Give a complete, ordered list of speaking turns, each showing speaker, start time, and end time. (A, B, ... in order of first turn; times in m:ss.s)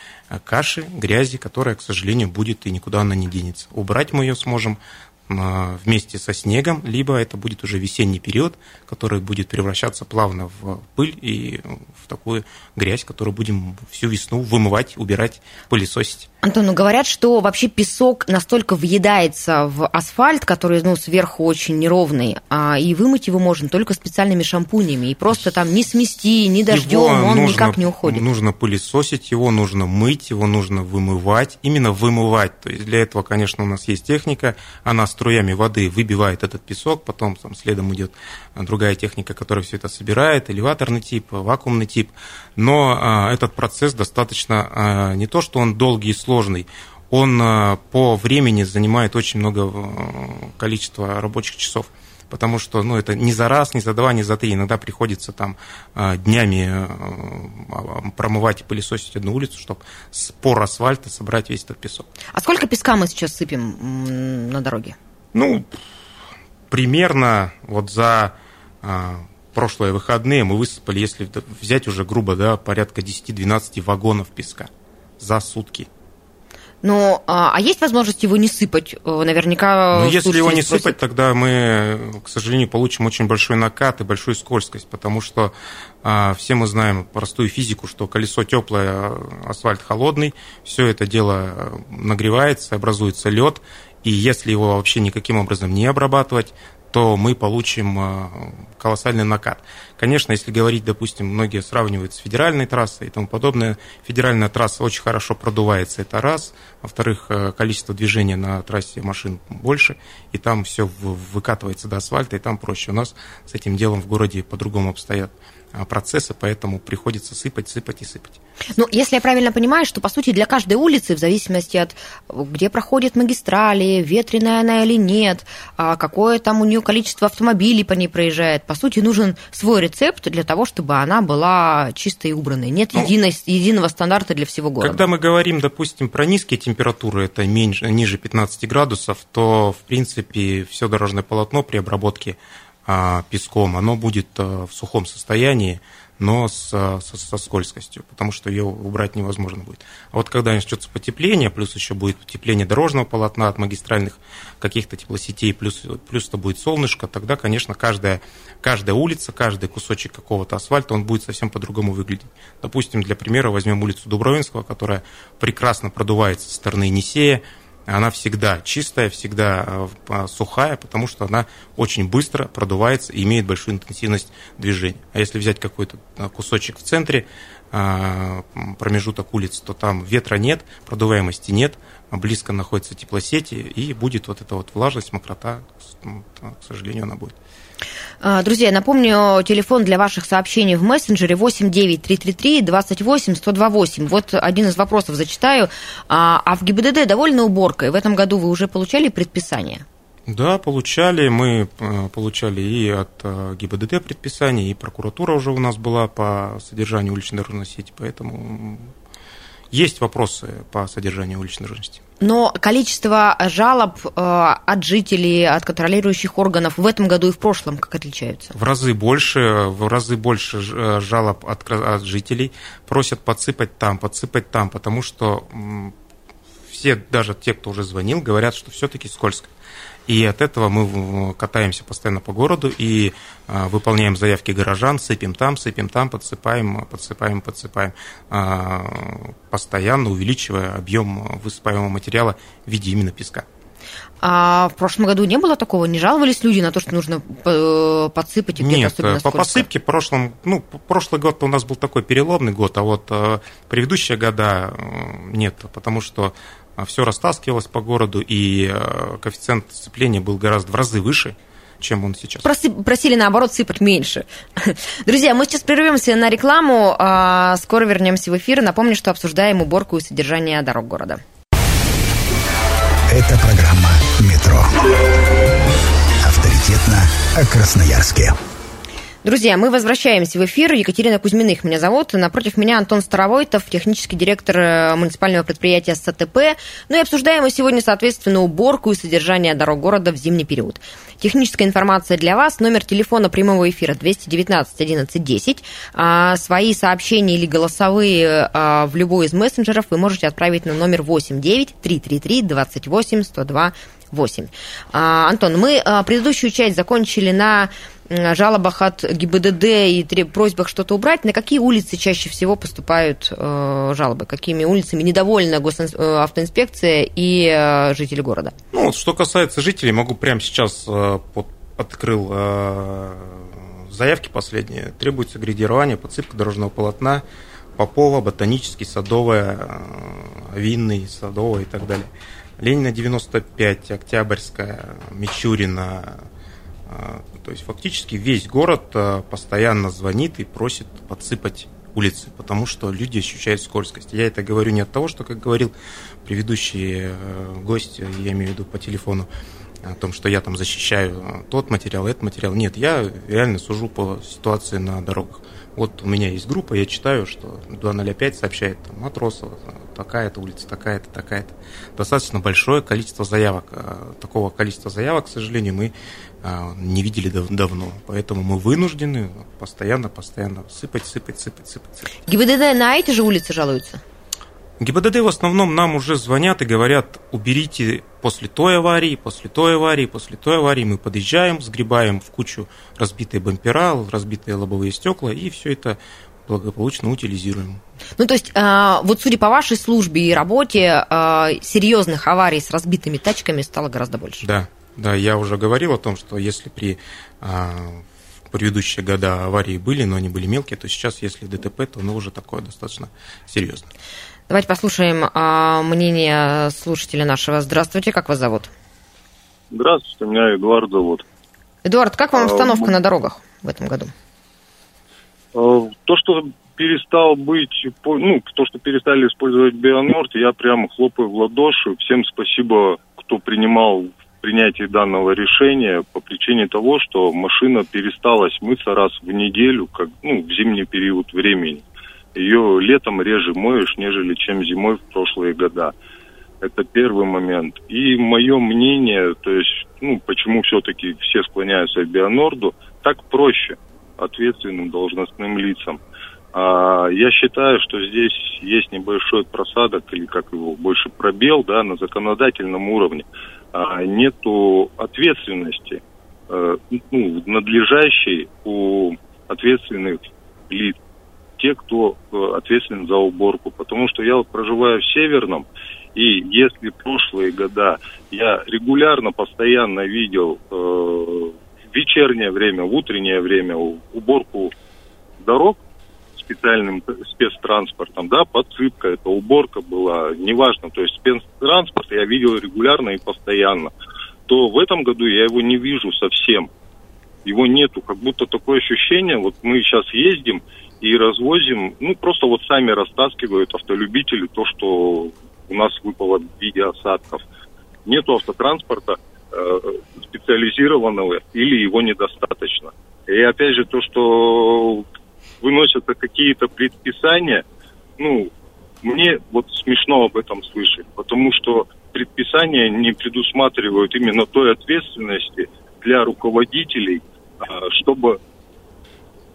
0:00.3-0:16.3 A
0:16.4-0:28.2 B
0:26.7-1:02.1 A
1:02.3-1:05.0 B
1:05.3-1:05.8 A
1:06.7-1:15.9 A
1:16.8-1:21.0 B
1:19.9-1:58.4 A
1:58.8-2:15.0 B
2:14.8-3:07.4 A
3:08.2-3:19.8 B
3:20.3-3:28.9 A
3:29.7-3:32.0 A
3:32.2-3:38.5 B
3:38.5-3:45.9 A
3:46.7-3:49.5 A
3:50.1-4:03.4 A
4:04.2-4:09.6 B
4:08.6-4:22.5 A
4:22.4-4:31.2 B
4:33.1-4:34.8 C
4:36.2-4:38.4 C
4:39.2-5:18.5 B
5:18.7-5:27.2 A
5:27.8-5:36.2 A
5:36.9-5:45.7 A
5:46.2-5:49.3 A
5:49.8-6:05.9 A
6:06.4-6:12.0 A
6:12.3-6:14.0 B
6:14.8-6:27.8 A
6:28.2-6:34.4 B
6:34.4-6:43.9 A
6:44.5-6:48.7 B
6:49.7-6:51.2 D
6:51.8-6:54.1 B
6:52.4-6:52.9 D
6:55.5-7:11.8 D
7:12.3-7:15.9 D
7:16.6-7:26.0 D
7:26.5-7:41.0 D
7:41.6-7:54.7 D
7:55.4-7:55.8 D
7:56.4-8:03.9 D
8:04.5-8:06.7 D
8:07.4-8:17.4 D
8:18.0-8:25.0 D
8:25.6-8:27.6 D
8:28.2-8:28.5 D
8:29.0-8:38.4 D